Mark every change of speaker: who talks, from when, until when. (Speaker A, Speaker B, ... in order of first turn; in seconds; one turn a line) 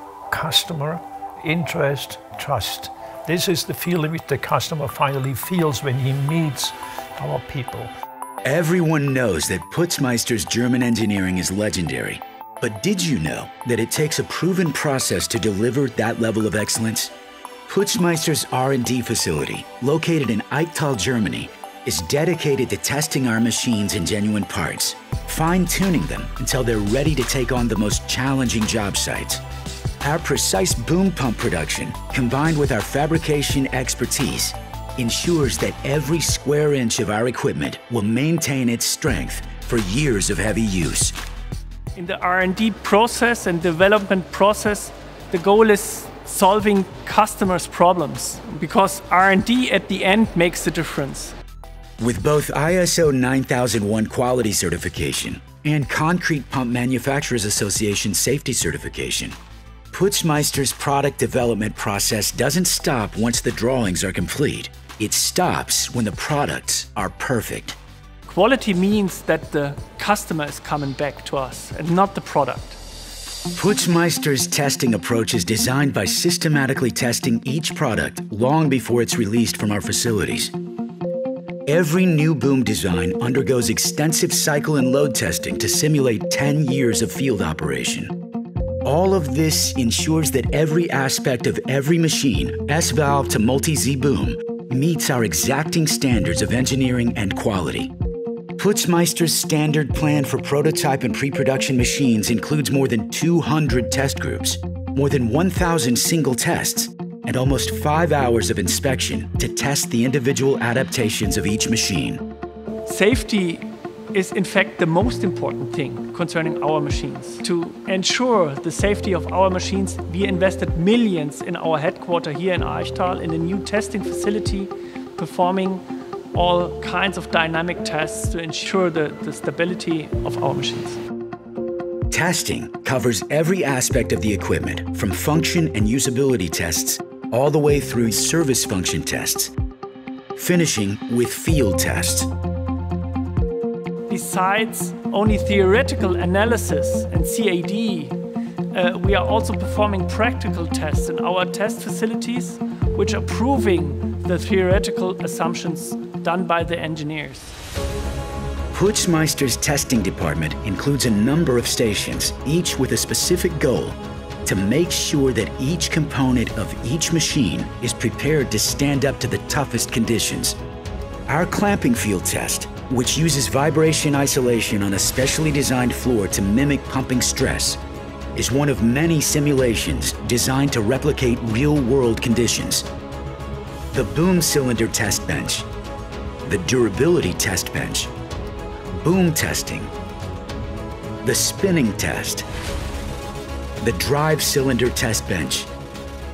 Speaker A: 0.3-7.9
Speaker B: 8.4-17.1
Speaker B: 17.7-29.4
Speaker B: 30.0-41.2
Speaker C: 42.0-51.4
Speaker B: 52.0-59.4
Speaker B: 59.9-67.8
Speaker C: 68.3-72.8
Speaker B: 73.5-80.5
Speaker B: 81.7-88.1
Speaker B: 88.8-97.9
Speaker B: 98.6-112.2
Speaker C: 112.9-125.8
Speaker C: 126.3-131.0
Speaker B: 132.1-139.5
Speaker B: 140.4-142.3
Speaker C: 144.1-148.2
Speaker C: 148.7-157.6
Speaker B: 158.7-170.6
Speaker B: 171.3-177.8
Speaker B: 178.4-182.9
Speaker B: 183.9-185.7
Speaker B: 186.5-188.1
Speaker B: 188.9-189.9
Speaker B: 191.2-192.5
Speaker B: 193.8-195.7